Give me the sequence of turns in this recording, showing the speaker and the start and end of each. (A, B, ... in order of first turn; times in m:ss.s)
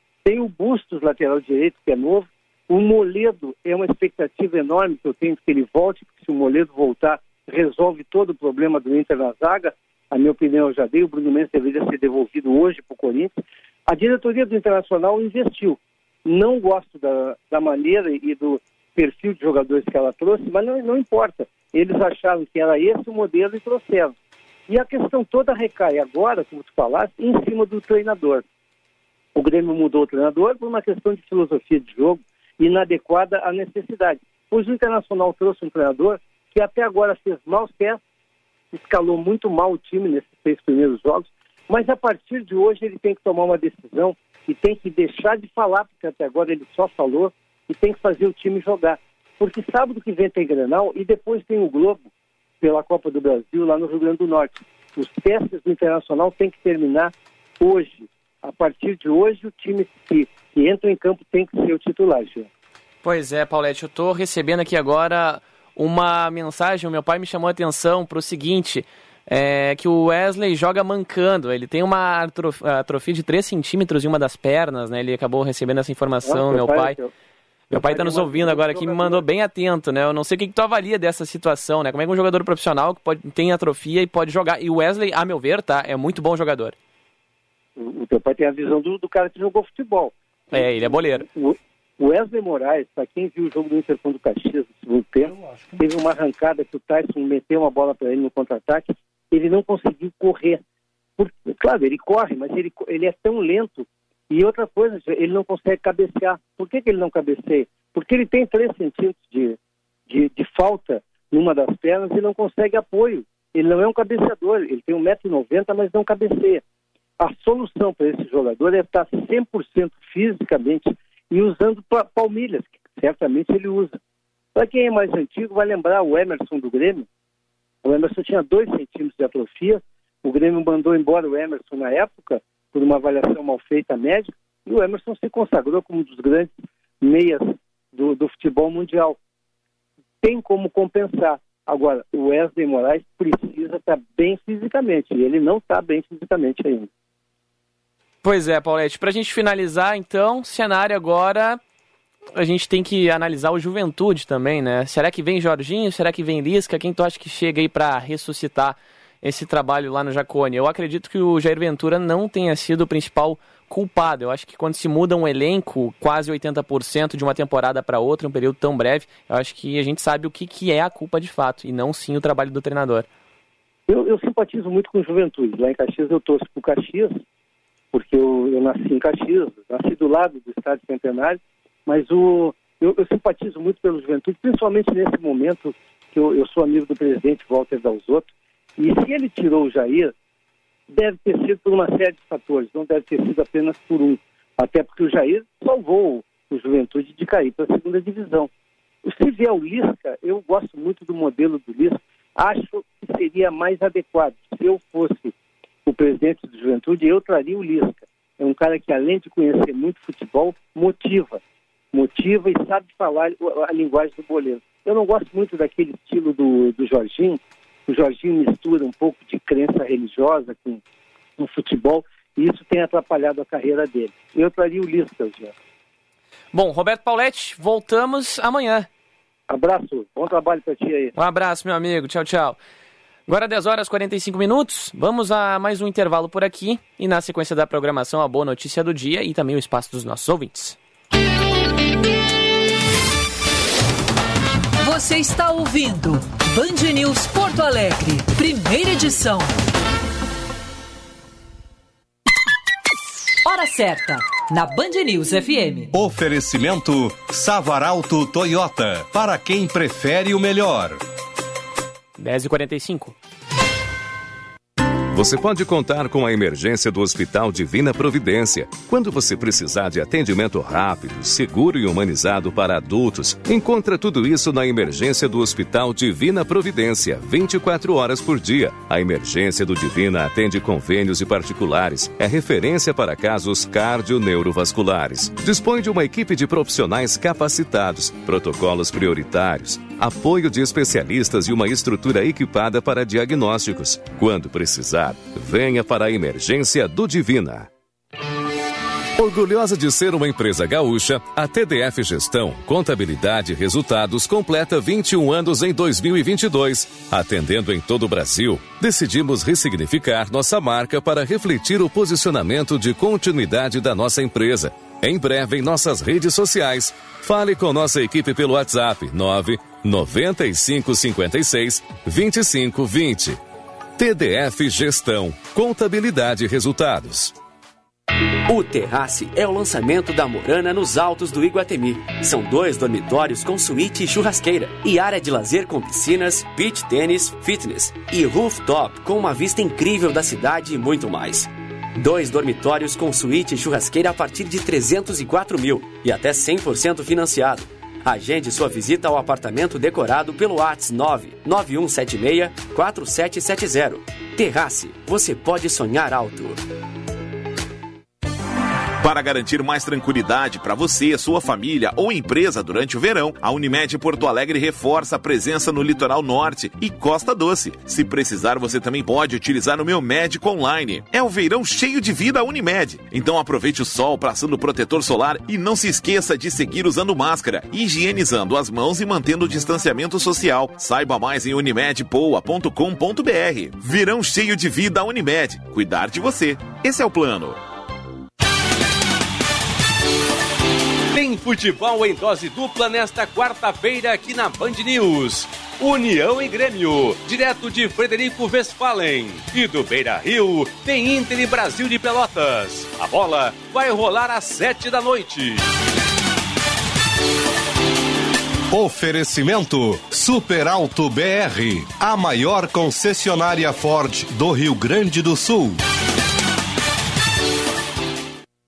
0:00.2-0:24.1 A
0:24.7-0:28.4 A
0:29.4-0:38.0 A
0:38.7-0:52.1 A
0:52.6-1:02.5 A
1:03.0-1:17.0 B
1:16.2-1:17.1 A
1:17.7-1:19.2 A
1:17.7-1:26.8 B
1:27.8-1:40.6 A
1:30.5-1:31.3 B
1:41.2-1:49.6 A
1:50.1-1:56.6 A
1:57.2-2:04.0 A
2:04.6-2:07.1 A
2:07.8-2:19.2 A
2:20.2-2:26.9 A
2:28.2-2:31.6 B
2:32.4-2:53.1 B
2:53.9-2:57.2 A
2:57.9-3:10.1 A
3:10.9-3:18.5 A
3:19.0-3:25.3 A
3:25.9-3:31.4 A
3:31.9-3:40.8 A
3:41.4-3:45.5 A
3:46.5-3:48.9 B
3:49.5-3:51.1 A
3:51.2-3:52.6 B
3:53.3-4:00.8 B
4:04.8-4:09.6 C
4:13.4-4:15.9 C
4:15.9-4:21.0 D
4:22.2-4:23.2 B
4:25.1-4:57.7 E
4:59.2-5:23.4 E
5:24.0-5:27.3 E
5:28.5-5:56.6 F
5:59.0-6:27.6 G
6:31.1-6:45.6 H
6:48.7-6:55.8 D